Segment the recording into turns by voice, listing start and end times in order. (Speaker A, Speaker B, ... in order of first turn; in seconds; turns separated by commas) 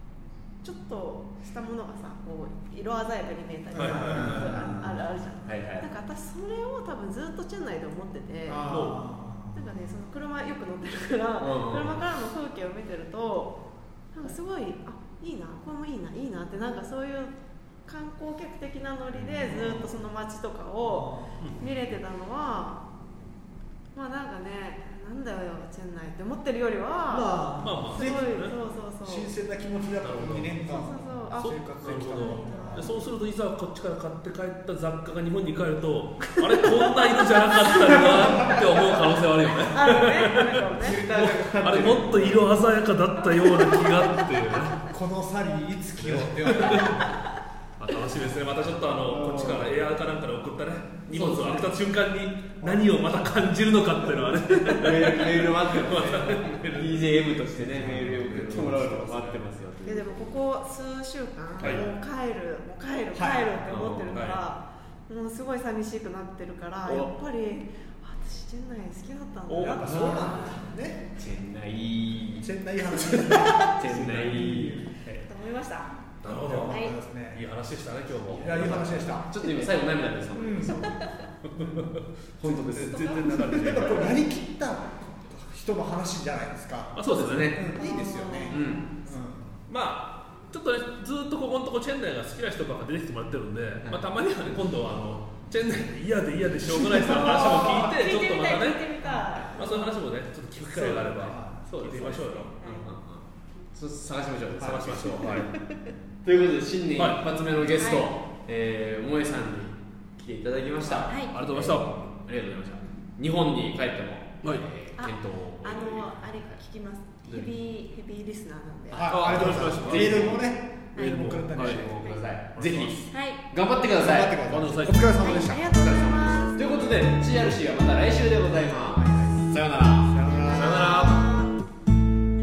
Speaker A: 0.6-8.7, Speaker B: 3.7-4.8, Speaker C: 3.7-4.5, Speaker D: 4.2-5.9, Speaker B: 8.5-9.7, Speaker C: 8.7-9.0, Speaker A: 9.5-13.6, Speaker D: 11.4-12.0, Speaker A: 14.1-17.3, Speaker A: 17.9-22.8, Speaker D: 19.1-19.6, Speaker B: 19.4-19.9, Speaker B: 20.8-21.4, Speaker A: 23.9-29.3, Speaker B: 27.1-32.9, Speaker C: 27.6-28.5, Speaker C: 30.0-30.6, Speaker A: 30.6-33.0, Speaker C: 31.4-44.8, Speaker A: 37.0-38.6, Speaker B: 38.0-38.6, Speaker A: 39.7-41.0, Speaker D: 40.7-42.5, Speaker A: 43.4-44.0, Speaker B: 44.9-47.1, Speaker C: 46.0-47.0, Speaker C: 47.8-59.4, Speaker D: 49.0-49.8, Speaker D: 51.1-51.7, Speaker B: 52.6-53.0, Speaker D: 54.7-60.4, Speaker B: 57.6-58.6, Speaker A: 59.8-70.4, Speaker B: 63.1-63.6, Speaker D: 63.6-64.2, Speaker C: 64.1-64.4, Speaker C: 69.5-70.5, Speaker B: 69.5-71.0, Speaker D: 69.8-70.3, Speaker D: 71.2-75.2, Speaker B: 72.4-74.9, Speaker A: 75.2-76.0, Speaker C: 76.2-79.0, Speaker B: 76.2-77.4, Speaker A: 76.7-77.0, Speaker D: 78.3-81.9, Speaker B: 78.3-79.7, Speaker B: 80.3-80.9, Speaker A: 80.6-81.3, Speaker C: 81.6-84.2, Speaker D: 82.4-83.6, Speaker A: 82.7-83.3, Speaker B: 83.4-89.6, Speaker C: 86.9-87.6, Speaker D: 87.0-87.8, Speaker A: 87.8-89.0, Speaker D: 88.5-88.9, Speaker C: 89.7-98.8, Speaker A: 97.0-100.0, Speaker C: 99.5-102.5, Speaker B: 100.8-101.7, Speaker D: 101.7-105.5, Speaker A: 101.9-102.9, Speaker B: 104.6-105.3, Speaker C: 104.6-105.5, Speaker A: 105.7-105.9, Speaker D: 106.2-116.6, Speaker C: 107.0-108.0, Speaker A: 107.7-108.1, Speaker C: 110.8-112.1, Speaker A: 111.1-111.3, Speaker A: 114.9-119.1, Speaker D: 118.9-120.5, Speaker B: 118.9-122.0, Speaker C: 119.1-120.4, Speaker A: 120.9-121.2, Speaker C: 121.0-121.8, Speaker D: 121.5-130.8, Speaker A: 122.0-122.2, Speaker C: 122.5-123.1, Speaker A: 123.1-123.4, Speaker B: 123.9-126.0, Speaker C: 124.4-125.2, Speaker A: 125.2-126.9, Speaker B: 130.1-131.4, Speaker C: 130.5-131.4, Speaker A: 130.6-131.4